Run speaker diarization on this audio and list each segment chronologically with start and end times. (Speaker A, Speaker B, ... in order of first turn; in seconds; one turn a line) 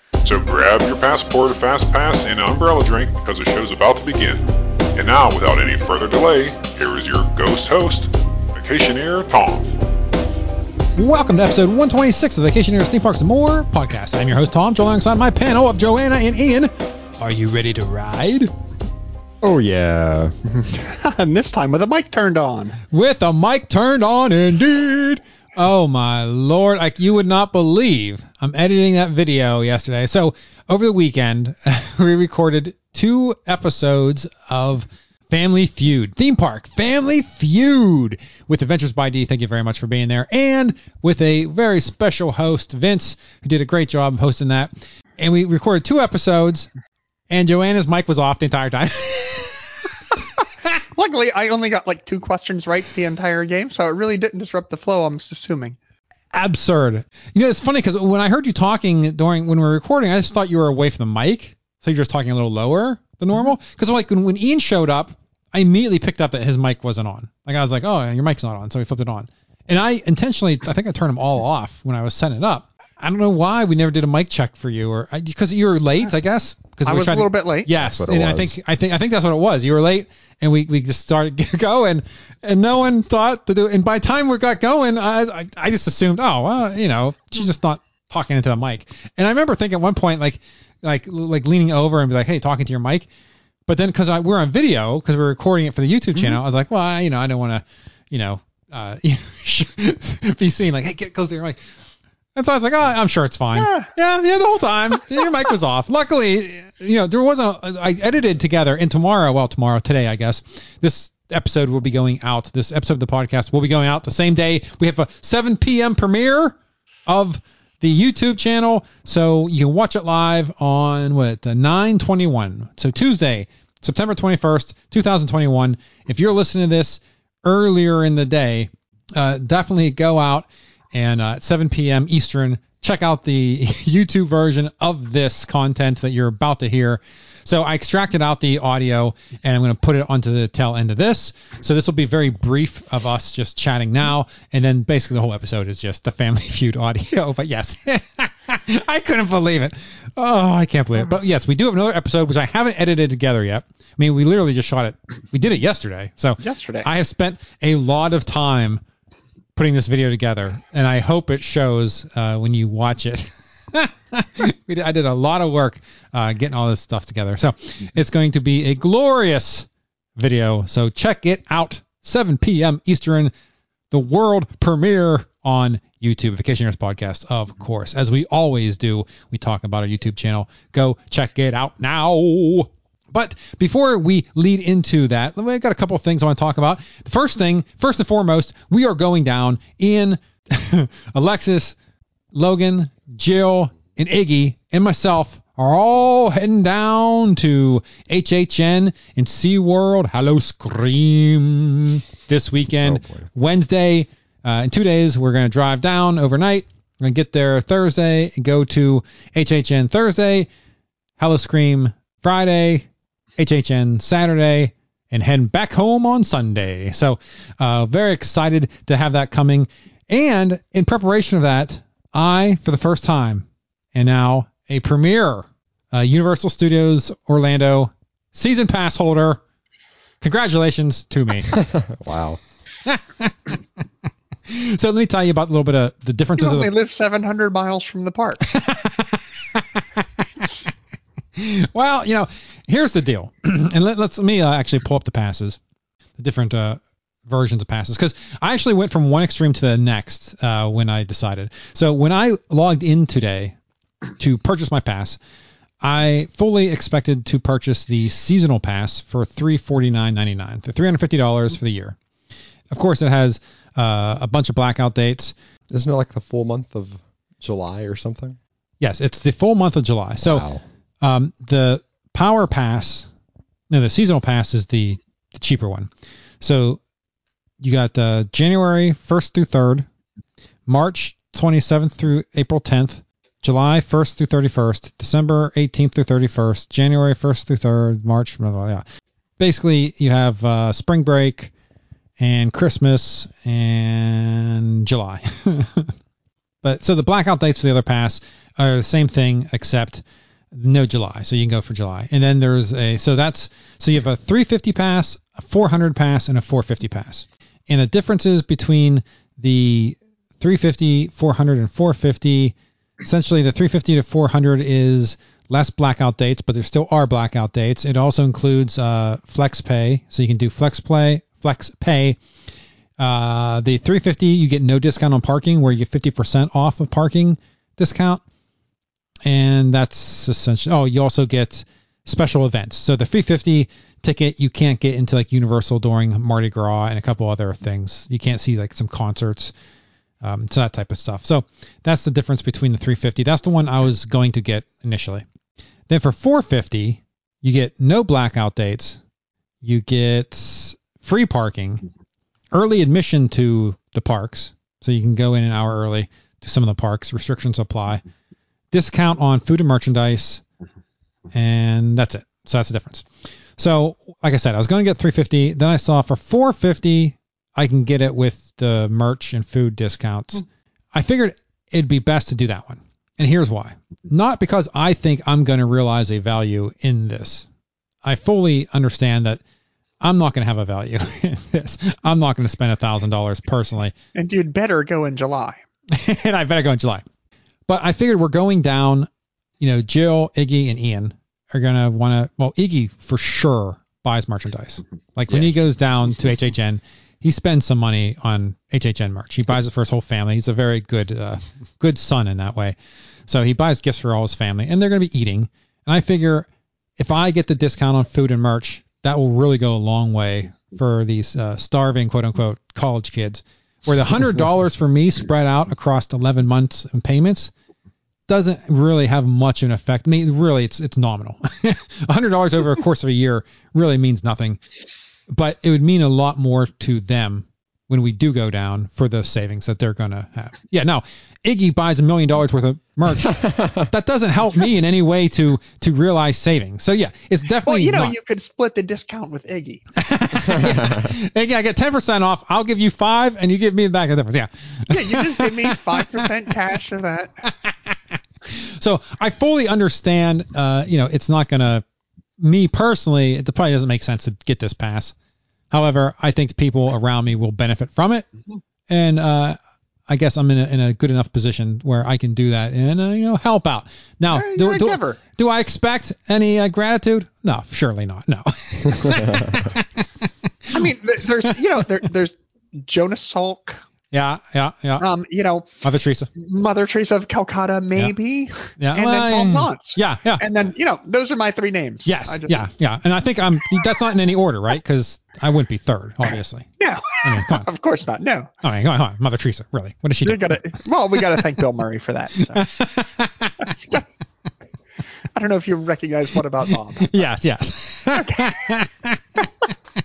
Speaker A: 0.2-9.7
Speaker B: 10.9-18.5
Speaker C: 19.4-20.3
Speaker D: 20.6-22.8
Speaker B: 22.9-46.7
Speaker B: 47.3-49.6
Speaker D: 50.9-55.8
Speaker B: 56.3-93.1
Speaker D: 76.8-77.7
Speaker C: 77.7-78.5
Speaker B: 93.7-101.6
Speaker B: 102.3-158.8
Speaker D: 103.5-103.9
Speaker D: 156.4-156.9
Speaker B: 159.6-173.3
Speaker B: 173.9-191.8
Speaker B: 192.3-210.5
Speaker C: 202.8-203.3
Speaker B: 211.2-212.9
Speaker B: 213.4-229.4
Speaker B: 230.2-231.5
Speaker C: 231.7-232.4
Speaker B: 232.8-233.3
Speaker B: 234.5-236.7
Speaker D: 236.4-238.4
Speaker B: 238.4-240.5
Speaker B: 241.4-245.6
Speaker B: 246.2-253.5
Speaker B: 254.2-255.2
Speaker B: 255.8-262.0
Speaker B: 262.7-265.3
Speaker C: 265.7-268.4
Speaker B: 268.8-270.4
Speaker C: 270.2-270.6
Speaker B: 271.0-273.1
Speaker B: 273.7-275.9
Speaker B: 276.4-276.8
Speaker B: 277.6-279.9
Speaker B: 280.7-288.8
Speaker B: 289.4-291.5
Speaker B: 292.2-295.9
Speaker B: 296.6-322.2
Speaker B: 323.0-328.2
Speaker B: 329.2-339.5
Speaker B: 340.2-345.2
Speaker B: 345.9-349.0
Speaker B: 349.6-351.8
Speaker B: 352.5-358.0
Speaker B: 358.7-360.4
Speaker B: 361.3-377.4
Speaker B: 378.0-379.4
Speaker B: 380.0-383.9
Speaker D: 384.1-385.6
Speaker B: 385.9-387.0
Speaker B: 387.7-389.1
Speaker B: 389.6-402.8
Speaker B: 403.3-406.5
Speaker B: 407.0-417.5
Speaker B: 418.3-424.6
Speaker B: 425.3-438.1
Speaker D: 437.5-439.9
Speaker B: 440.0-446.2
Speaker D: 444.9-447.3
Speaker B: 448.5-451.8
Speaker B: 452.4-455.1
Speaker B: 455.7-458.3
Speaker B: 458.9-459.6
Speaker B: 460.1-470.7
Speaker D: 464.3-465.2
Speaker D: 470.7-473.8
Speaker B: 474.1-475.1
Speaker D: 475.0-475.7
Speaker B: 475.8-476.3
Speaker D: 476.4-482.7
Speaker B: 478.8-480.4
Speaker B: 482.0-486.7
Speaker D: 486.8-488.5
Speaker B: 487.2-487.7
Speaker B: 488.6-490.6
Speaker D: 490.2-492.7
Speaker B: 492.5-494.0
Speaker D: 495.3-497.2
Speaker B: 497.0-499.4
Speaker D: 498.1-498.5